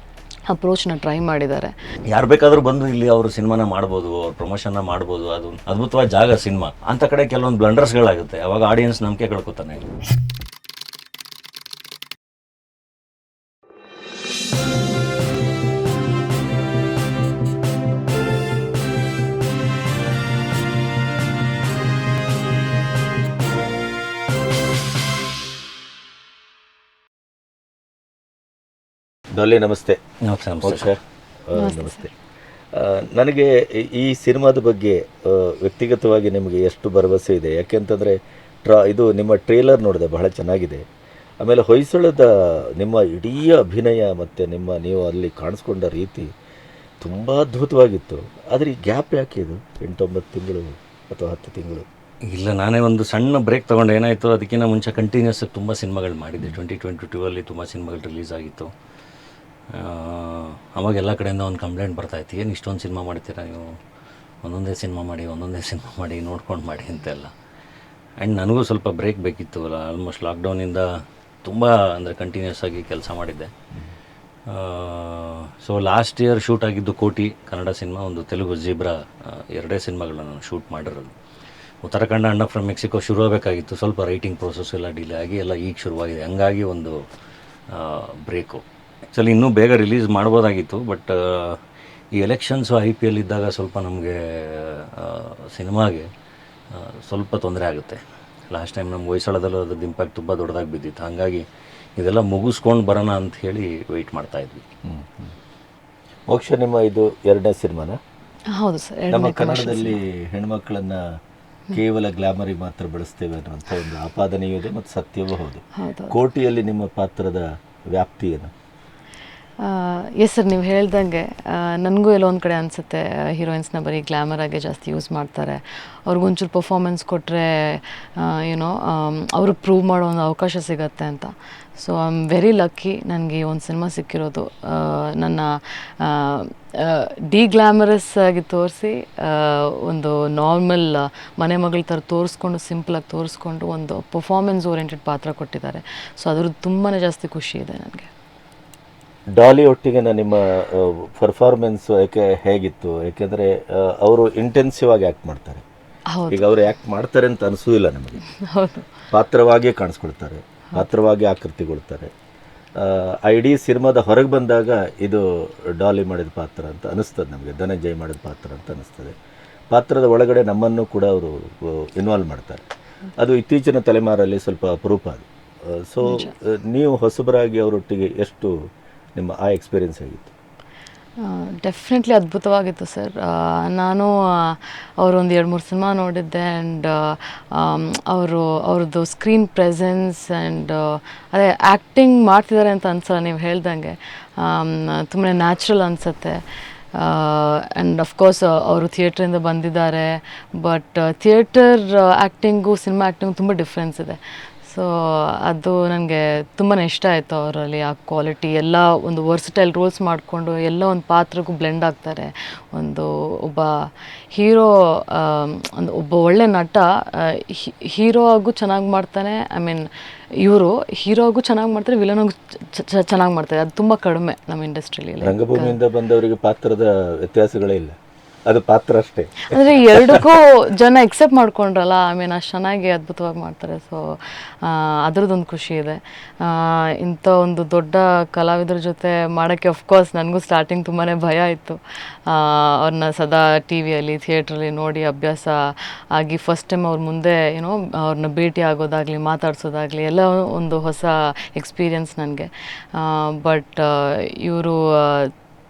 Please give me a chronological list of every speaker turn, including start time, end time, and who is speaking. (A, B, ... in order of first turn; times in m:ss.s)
0:00.5-0:01.7 A
0:02.1-0:09.8 B
0:29.3-0:30.0 C
0:30.3-0:30.9 B
0:30.6-0:32.1 C
0:31.6-0:32.1 A
0:32.8-0:40.8 C
0:41.4-0:46.3 C
0:47.0-0:51.9 C
0:52.3-0:58.7 B
0:59.7-1:03.8 B
1:04.4-1:07.3 B
1:08.2-1:10.9 B
1:11.4-1:13.5 B
1:14.5-1:21.1 B
1:21.8-1:27.0 B
1:27.7-1:31.6 B
1:32.2-1:36.1 B
1:36.7-1:41.4 B
1:42.0-1:44.6 B
1:44.8-1:45.3 C
1:46.3-1:48.0 C
1:48.5-1:50.0 A
1:49.1-1:51.0 C
1:51.7-1:58.5 C
1:55.8-1:56.2 A
1:59.6-2:28.1 A
2:29.3-2:35.6 C
2:36.1-2:36.5 A
2:36.3-2:38.2 C
2:38.4-2:38.9 A
2:39.1-2:42.1 C
2:42.8-2:49.2 C
2:49.7-2:52.6 C
2:53.2-2:58.5 C
2:56.0-2:56.3 A
2:59.2-3:00.3 C
3:01.2-3:16.4 A
3:16.9-3:39.9 A
3:40.4-3:45.8 A
3:45.2-3:50.2 C
3:49.5-4:15.3 A